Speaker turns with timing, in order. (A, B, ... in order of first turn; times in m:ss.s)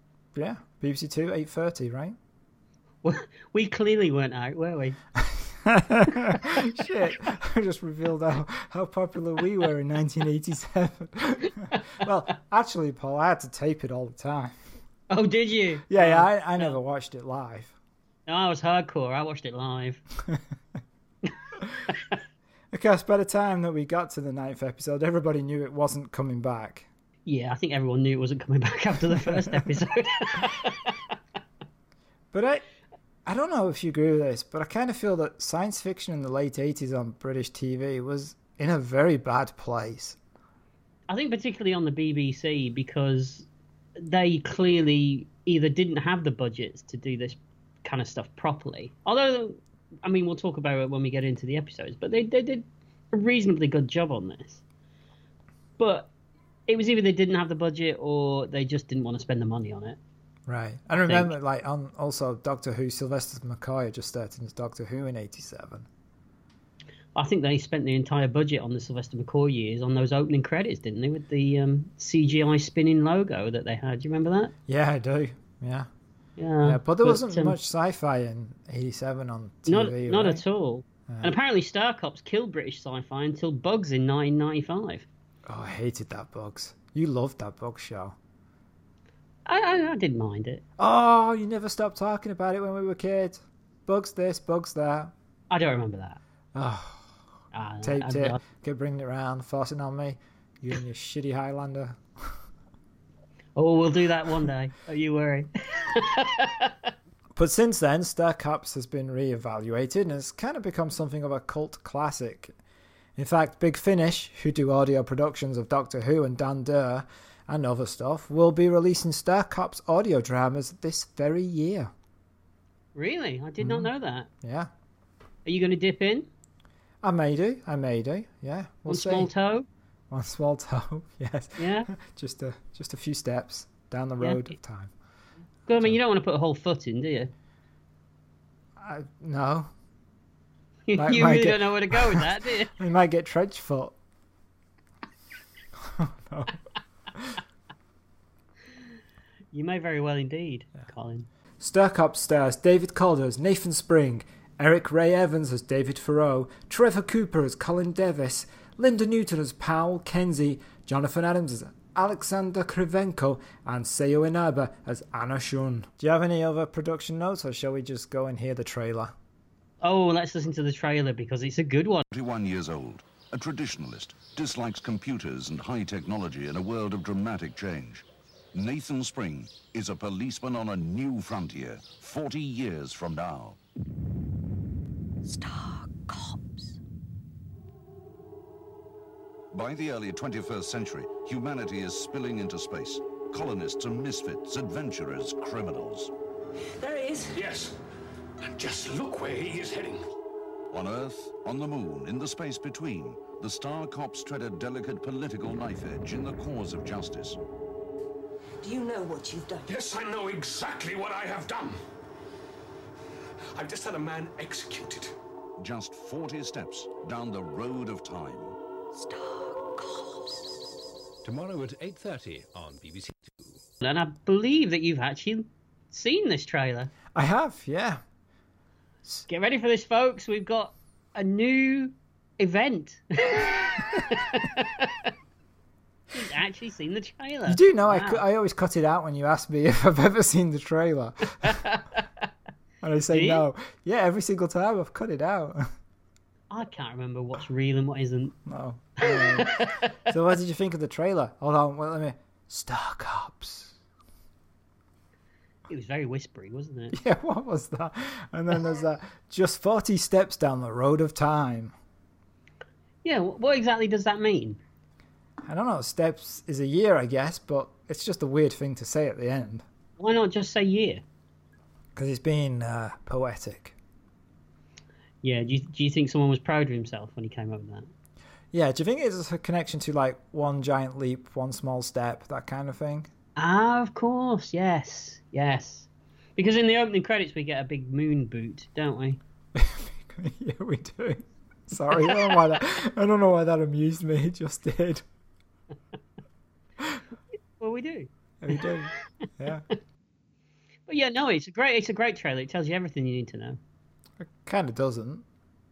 0:00.3-0:02.2 A
0:03.0-0:05.0 B
0:05.2-0:14.6 A
0:06.2-0:06.5 B
0:15.1-0:16.8 B
0:15.9-0:17.7 A
0:18.2-0:20.0 B
0:21.9-0:22.1 B
0:22.7-0:26.9 A
0:27.2-0:31.0 B
0:29.3-0:29.6 A
0:32.3-0:32.6 A
0:33.2-0:40.2 A
0:41.1-0:43.5 B
0:44.0-0:54.6 B
0:55.8-0:56.1 B
0:56.7-1:00.0 B
1:00.5-1:05.9 A
1:01.1-1:01.3 B
1:07.1-1:14.5 B
1:14.7-1:15.9 A
1:16.4-1:17.5 B
1:16.6-1:20.4 A
1:19.7-1:25.1 B
1:21.1-1:21.3 A
1:25.5-1:28.2 A
1:29.4-1:30.6 B
1:30.8-1:35.1 A
1:35.5-1:36.2 B
1:36.5-1:37.0 A
1:37.5-1:38.4 B
1:37.8-1:42.0 A
1:43.6-1:46.9 B
1:47.4-1:52.5 A
1:53.2-2:01.9 A
2:02.9-2:04.3 B
2:03.6-2:03.9 A
2:04.4-2:04.7 A
2:05.4-2:06.3 B
2:07.0-2:09.3 A
2:08.9-2:09.6 B
2:10.1-2:14.9 A
2:11.6-2:11.9 B
2:14.2-2:14.5 B
2:15.7-2:17.3 B
2:18.8-2:19.7 A
2:20.9-2:22.7 B
2:21.0-2:24.0 A
2:25.8-2:26.6 A
2:27.1-2:27.4 A
2:29.5-2:31.3 B
2:31.6-2:49.1 A
2:49.8-2:52.1 B
2:52.1-3:03.6 C
3:05.2-3:06.8 D
3:09.5-3:16.1 C
3:16.8-3:17.4 D
3:17.3-3:17.7 E
3:18.4-3:20.0 E
3:20.7-3:27.4 C
3:28.6-3:29.7 D
3:29.7-3:31.8 E
3:33.5-3:35.1 E
3:35.6-3:38.6 C
3:38.9-3:40.5 D
3:41.2-3:43.6 F
3:43.8-3:46.9 B
3:47.1-3:48.0 A
3:49.3-3:55.0 B
3:56.1-3:58.2 B
3:57.4-4:01.6 A
4:01.4-4:01.8 B
4:02.8-4:05.7 A
4:03.1-4:03.4 B
4:06.5-4:08.4 B
4:08.4-4:13.7 A
4:09.0-4:09.9 B
4:15.7-4:17.0 B
4:16.9-4:21.7 A
4:23.0-4:24.6 B
4:25.4-4:29.6 A
4:30.0-4:31.0 B
4:31.9-4:33.8 A
4:35.2-4:37.9 B
4:38.5-4:43.1 A
4:43.4-4:49.2 B
4:49.5-4:55.0 A
4:51.9-4:52.4 B
4:57.6-4:58.6 B
4:58.4-4:59.6 A
5:00.9-5:03.6 B
5:04.2-5:05.2 A